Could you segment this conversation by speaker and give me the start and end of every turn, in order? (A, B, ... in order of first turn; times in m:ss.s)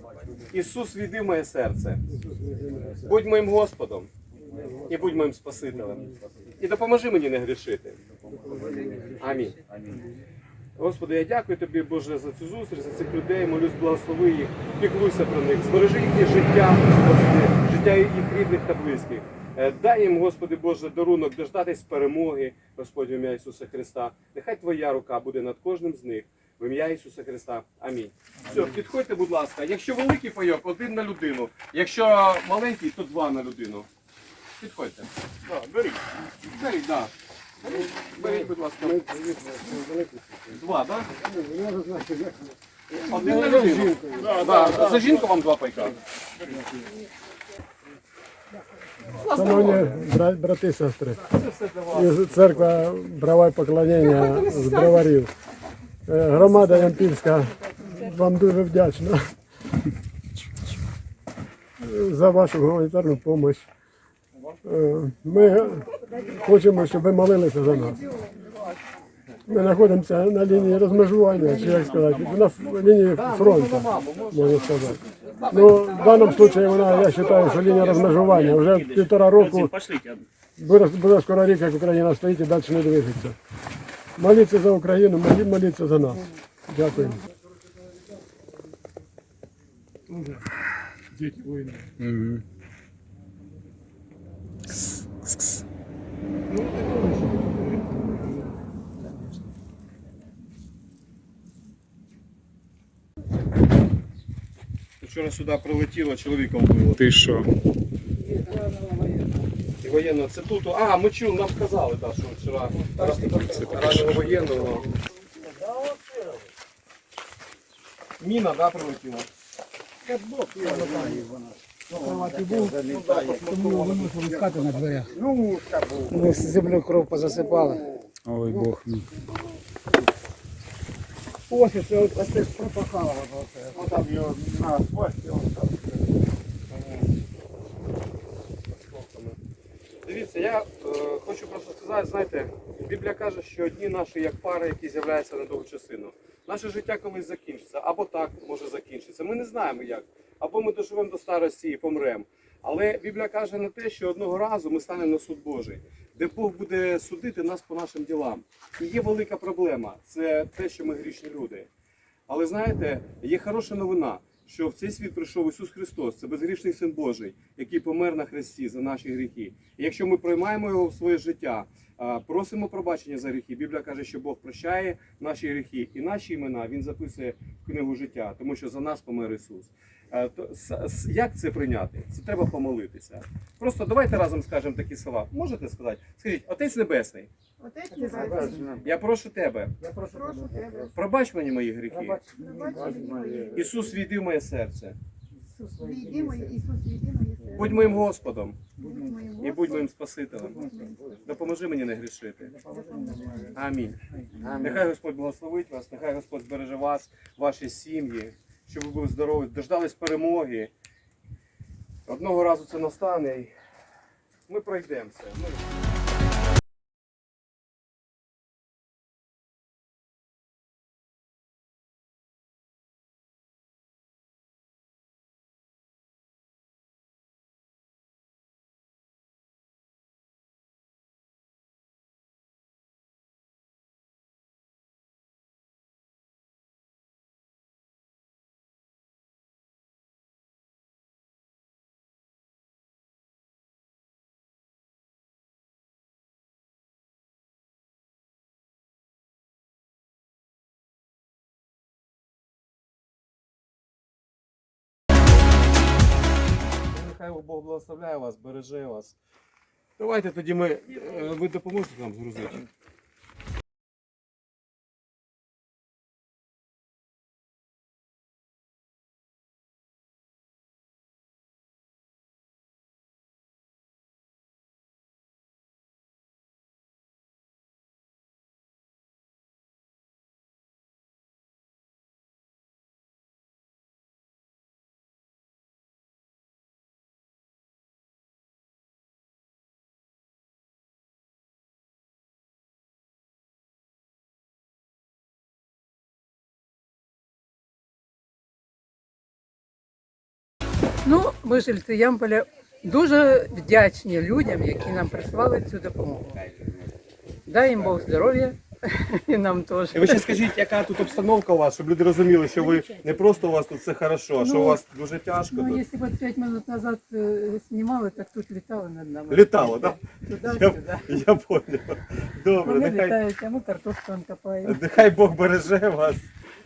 0:00.5-0:02.0 A
0:03.0-0:04.1 A
0:04.9-0:08.0 A
0:09.2-0:09.6 A
0:10.8-0:33.9 A
0:34.6-0:35.1 A
0:35.4-0:36.0 B
0:36.5-0:37.1 A
0:37.6-0:39.3 A
0:40.5-0:41.1 A
0:41.4-0:42.3 C
0:43.0-0:46.0 A
0:44.1-0:45.1 B
0:49.2-0:49.9 A
0:49.2-0:51.4 C
0:51.3-0:52.7 A
0:51.9-0:55.3 C
0:54.1-0:55.0 A
0:56.0-0:59.2 C
1:01.8-1:03.6 C
1:04.6-1:08.0 C
1:09.5-1:15.0 C
1:11.7-1:12.6 B
1:13.1-1:17.7 A
1:15.5-1:19.8 C
1:15.9-1:20.2 B
1:20.6-1:23.4 C
1:24.2-1:27.2 C
1:32.0-1:32.4 D
1:45.0-1:47.0 A
1:47.0-1:47.5 D
1:49.8-1:54.9 A
1:53.5-1:54.3 D
1:58.2-1:59.3 A
2:00.7-2:01.2 E
2:01.9-2:05.2 E
2:06.0-2:07.8 E
2:08.2-2:09.1 D
2:11.5-2:12.9 E
2:16.7-2:17.0 A
2:18.9-2:19.4 A
2:20.0-2:41.7 A
2:42.3-3:07.3 A
3:07.6-3:08.8 F
3:08.8-3:09.7 A
3:09.9-3:10.9 F
3:10.9-3:12.2 A
3:12.2-3:13.8 F
3:13.5-3:15.0 A
3:15.5-3:18.0 F
3:17.5-3:18.6 A
3:18.8-3:21.2 F
3:19.4-3:20.6 A
3:21.2-3:22.6 A
3:22.6-3:23.5 F
3:23.5-3:24.0 A
3:24.6-3:30.7 A
3:32.1-3:33.5 A
3:34.5-3:35.6 A
4:16.9-4:19.2 A
4:20.0-4:22.6 A
5:01.0-5:06.4 G
5:07.5-5:10.4 G
5:09.9-5:15.8 A
5:12.6-5:12.9 G
5:14.4-5:14.8 G
5:15.5-5:21.1 G
5:19.3-5:23.2 A
5:22.6-5:24.8 G
5:24.6-5:26.3 A